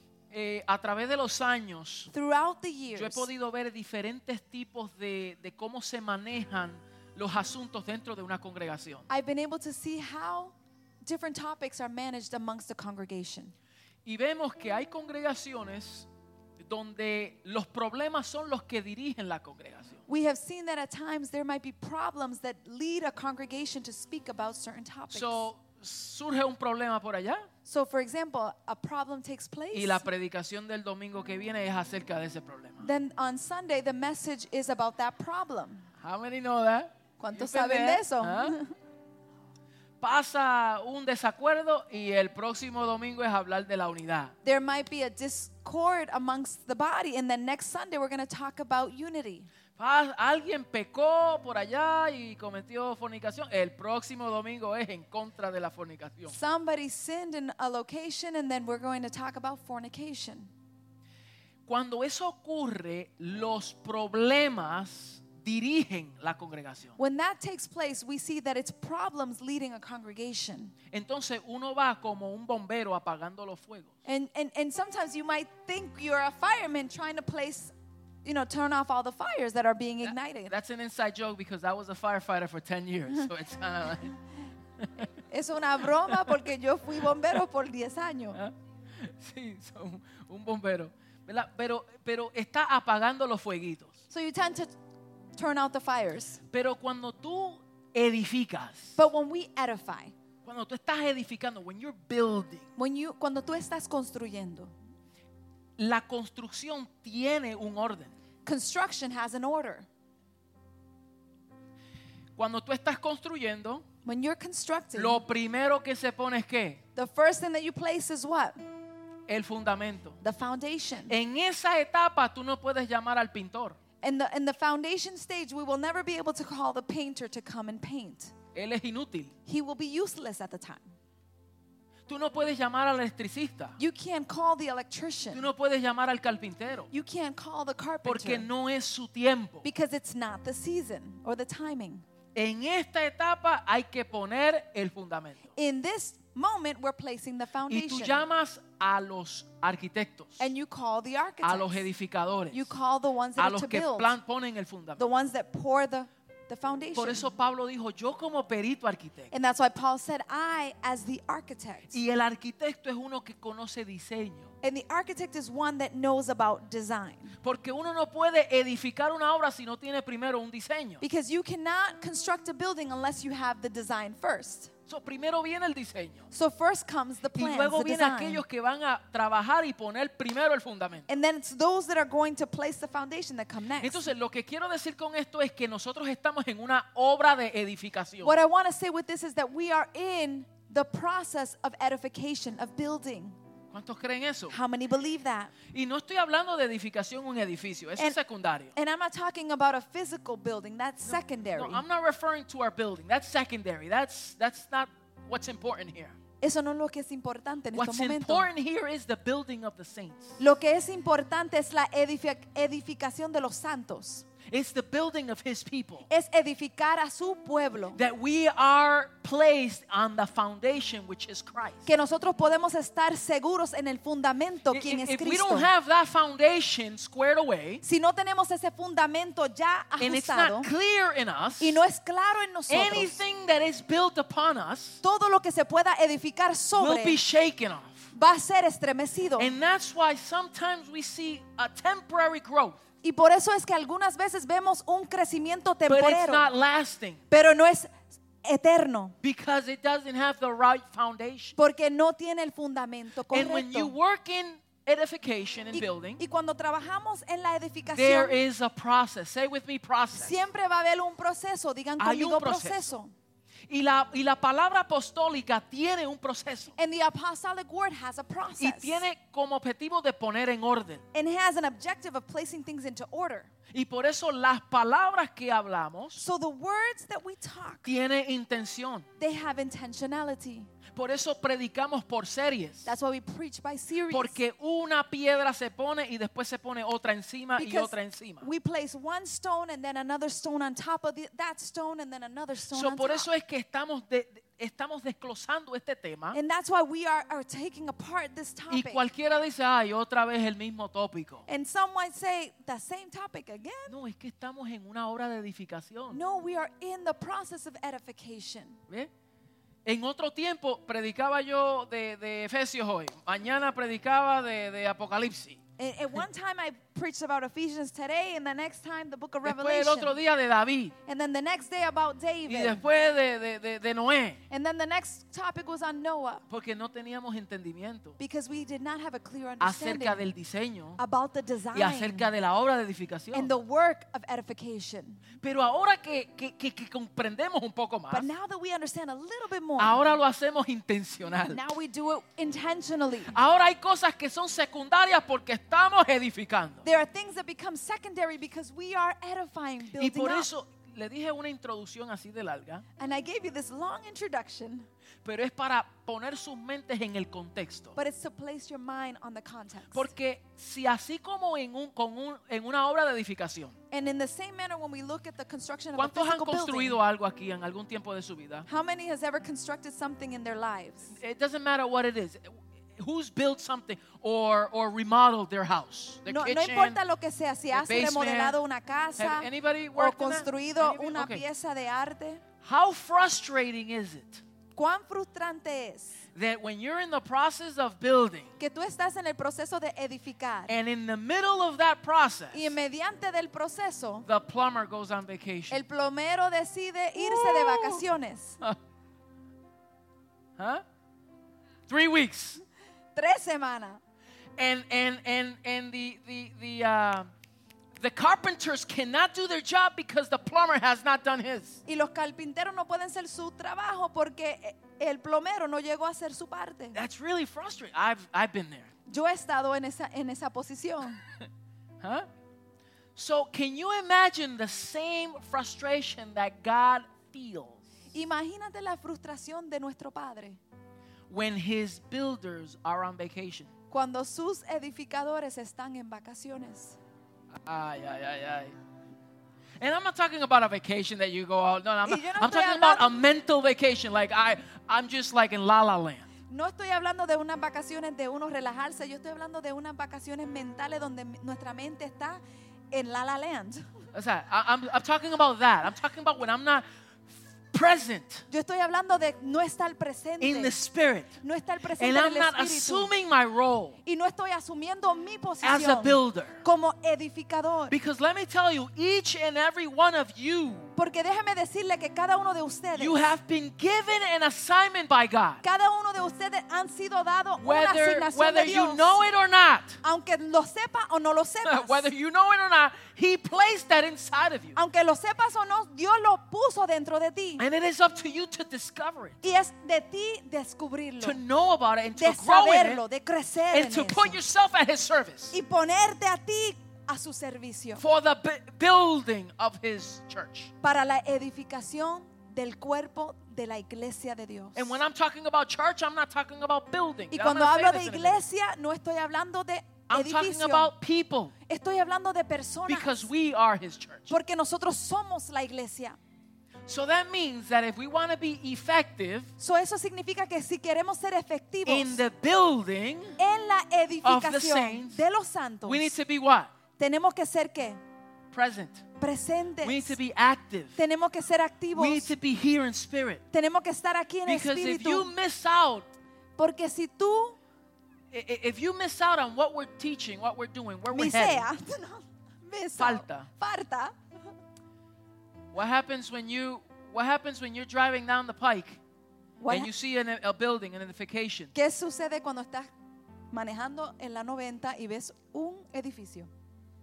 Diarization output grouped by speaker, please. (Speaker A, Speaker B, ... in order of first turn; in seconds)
Speaker A: 0.3-2.1, 2.9-9.1, 14.0-16.1, 16.6-20.0, 25.1-27.5, 29.7-32.9, 36.0-38.5, 40.0-44.3, 49.8-56.3, 61.6-67.0, 70.9-73.9, 80.5-84.2, 84.8-85.1, 86.0-86.3, 88.3-93.9, 96.5-99.0, 100.4-102.7, 105.8-108.1, 112.3-113.8, 114.9-116.8, 119.3-120.2, 121.1-123.8, 128.5-129.3, 132.1-133.8, 135.3-136.9, 138.0-139.6, 142.3-145.5, 147.7-150.5, 151.4-152.7, 153.4-155.0, 156.9-159.3, 161.9-164.5, 167.4-171.0, 174.9-176.3, 177.3-181.1, 183.8-188.3, 193.7-194.6, 195.7-198.7, 201.1-206.1, 207.7-210.4, 214.4-216.1, 217.9-221.9, 224.7-227.8, 230.0-231.8, 232.7-235.0, 236.8-238.1, 239.4-242.8, 245.9-247.2, 249.2-251.5, 253.3-256.2, 257.9-260.3, 262.0-262.9, 263.7-266.7, 268.6-271.0, 273.7-276.2, 277.8-279.1, 280.9-282.9, 284.1-288.4, 292.7-296.4, 298.7-301.4, 303.9-306.2, 309.8-315.6, 319.4-320.9, 322.4-324.4, 326.5-328.2, 329.6-331.0, 331.7-333.5, 335.4-338.3, 339.8-341.6, 343.3-346.8, 350.0-352.8, 355.2-357.9, 359.9-363.7, 365.9-368.6, 371.1-377.0, 377.7-378.6, 379.2-381.4, 382.6-384.4, 386.3-388.5, 390.7-392.8, 394.2-395.8, 397.2-398.1, 400.6-400.8, 401.9-402.6, 404.6-407.3, 408.0-411.8, 416.9-418.9, 422.0-422.3, 423.1-427.8, 431.3-433.7, 437.5-438.7, 439.8-446.3, 454.1-456.8, 457.7-458.4, 460.4-461.4, 462.0-464.0, 465.6-466.6, 467.9-470.9, 472.9-475.6, 477.6-480.0, 481.6-484.7, 487.6-489.4, 491.2-493.0, 493.7-495.5, 498.0-500.7, 504.7-508.4, 510.1-511.5, 512.9-514.3, 516.9-519.5, 521.9-523.4, 524.2-525.2, 525.9-526.7, 528.5-529.0, 529.8-531.0, 531.9-533.4, 534.5-536.1, 538.3-541.6, 543.0-543.5, 545.7-549.0, 549.7-551.7
Speaker B: 2.1-3.3, 9.1-13.5, 20.1-25.5, 27.6-30.0, 32.8-35.9, 37.2-38.7, 44.4-49.5, 56.3-60.5, 67.0-70.7, 74.0-77.7, 78.2-80.5, 85.3-88.4, 94.1-94.7, 95.3-96.4, 99.0-100.1, 102.8-104.7, 108.4-109.9, 114.0-115.2, 116.9-118.6, 120.2-121.2, 124.0-128.3, 129.4-130.8, 133.8-135.5, 136.9-138.5, 139.6-142.0, 145.5-148.2, 150.4-151.8, 152.5-154.2, 155.0-157.3, 159.3-162.0, 164.6-167.4, 171.0-174.7, 176.3-178.4, 181.1-184.1, 188.2-193.4, 194.5-195.5, 198.7-201.8, 206.4-208.5, 210.4-214.3, 216.1-218.0, 221.8-225.7, 227.8-230.7, 231.6-233.2, 235.0-237.2, 238.1-239.5, 243.0-246.5, 247.3-249.1, 251.6-253.9, 255.7-258.4, 260.1-263.1, 266.8-269.0, 271.1-273.5, 276.1-277.9, 279.2-280.7, 282.8-284.4, 287.6-293.3, 296.3-299.0, 301.5-303.9, 306.1-308.8, 315.8-320.2, 321.1-322.8, 324.5-326.4, 328.2-330.3, 331.0-332.3, 333.3-335.3, 338.1-340.0, 341.5-343.3, 346.8-350.5, 353.0-354.9, 357.9-360.1, 363.9-367.0, 368.7-371.2, 376.2-382.4, 384.8-386.2, 388.6-390.7, 392.5-394.3, 395.7-398.6, 403.1-404.0, 411.9-417.0, 419.1-421.2, 428.1-430.6, 433.9-437.0, 442.0-443.2, 446.5-453.9, 458.5-460.8, 461.4-463.1, 464.0-467.9, 470.9-473.3, 475.6-479.2, 480.0-482.1, 484.7-487.6, 489.4-491.4, 492.1-494.4, 495.5-498.0, 500.8-505.0, 507.3-510.9, 511.7-513.3, 514.3-516.2, 519.6-522.2, 523.4-526.1, 527.0-528.0, 529.2-530.2, 531.0-532.3, 533.5-535.3, 536.6-537.6, 541.1-544.1, 549.6-549.9, 551.7-552.9, 553.5-556.5